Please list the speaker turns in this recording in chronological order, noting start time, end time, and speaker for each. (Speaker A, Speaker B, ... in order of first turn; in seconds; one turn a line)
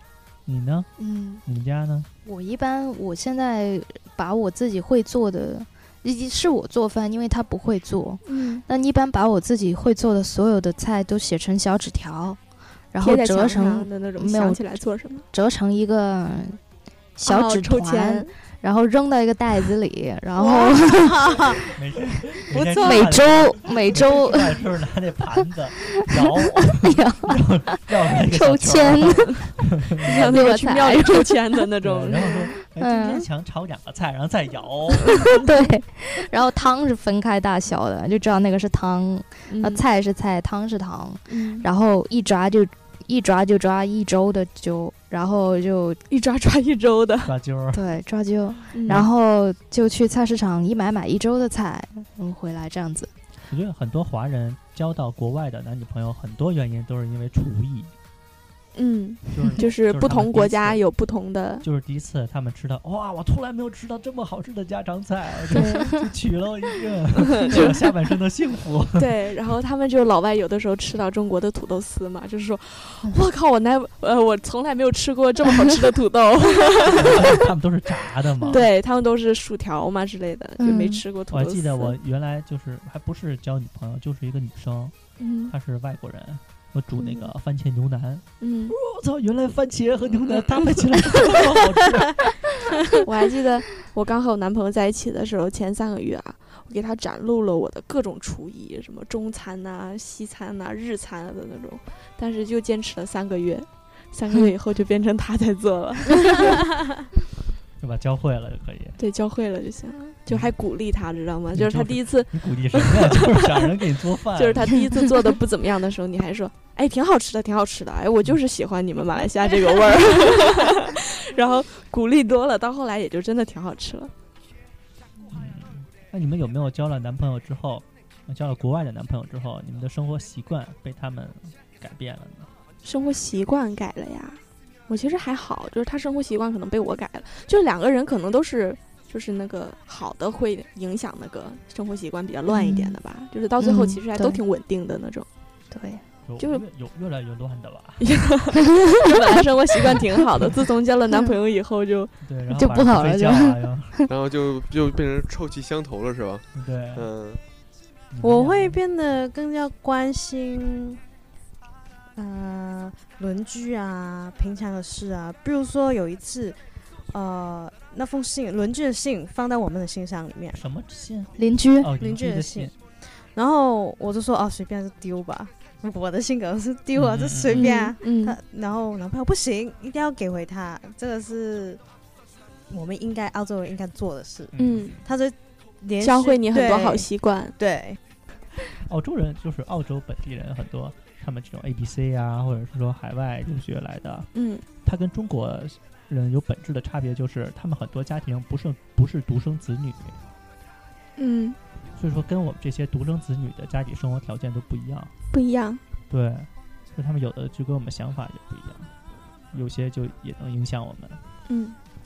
Speaker A: 0.5-0.9
Speaker B: 1.0-1.4
Speaker A: 1.4-2.1
Speaker B: 2.2-12.4
Speaker C: 8.3-8.7
Speaker B: 12.9-14.8
Speaker C: 13.0-15.3
Speaker B: 15.3-16.6
Speaker B: 17.2-21.6
Speaker C: 17.2-18.3
Speaker D: 20.4-21.7
Speaker A: 21.8-30.4
Speaker D: 22.6-23.2
Speaker B: 22.8-24.6
Speaker B: 26.0-29.4
Speaker B: 30.0-31.6
Speaker C: 30.0-32.5
Speaker A: 31.8-35.4
Speaker B: 32.2-33.3
Speaker B: 35.3-46.0
Speaker C: 39.5-39.8
Speaker C: 41.3-41.7
Speaker C: 46.1-47.3
Speaker A: 47.2-47.8
Speaker B: 47.7-53.1
Speaker C: 48.7-49.0
Speaker A: 53.5-57.9
Speaker C: 58.8-61.6
Speaker A: 59.3-60.8
Speaker A: 61.6-69.1
Speaker C: 65.5-66.0
Speaker C: 69.0-77.3
Speaker A: 76.9-78.7
Speaker C: 78.5-81.9
Speaker B: 80.6-81.0
Speaker A: 81.3-85.0
Speaker C: 85.2-85.5
Speaker A: 85.5-92.3
Speaker C: 87.0-87.3
Speaker C: 88.4-88.8
Speaker C: 90.3-90.7
Speaker C: 92.9-106.7
Speaker A: 107.8-109.0
Speaker C: 109.0-113.7
Speaker A: 111.5-114.8
Speaker C: 114.3-124.1
Speaker A: 125.3-132.5
Speaker C: 132.8-145.3
Speaker B: 142.5-143.0
Speaker B: 143.6-144.4
Speaker B: 145.7-146.0
Speaker A: 146.2-148.1
Speaker C: 148.0-152.1
Speaker B: 148.8-149.1
Speaker A: 152.2-153.9
Speaker B: 152.5-154.0
Speaker E: 154.1-157.4
Speaker A: 156.5-157.1
Speaker A: 158.1-158.8
Speaker D: 158.2-161.0
Speaker D: 162.1-166.6
Speaker D: 167.1-170.6
Speaker A: 170.5-172.7
Speaker B: 171.4-171.9
Speaker D: 172.0-172.7
Speaker D: 173.3-181.8
Speaker A: 176.9-177.7
Speaker C: 177.6-178.4
Speaker D: 182.7-188.0
Speaker A: 184.5-185.0
Speaker C: 184.6-184.9
Speaker C: 186.0-187.6
Speaker A: 188.8-194.3
Speaker C: 194.3-194.6
Speaker A: 194.8-200.2
Speaker C: 201.2-201.6
Speaker A: 202.0-205.1
Speaker C: 205.3-205.8
Speaker A: 206.1-208.9
Speaker A: 209.5-211.2
Speaker C: 211.5-211.8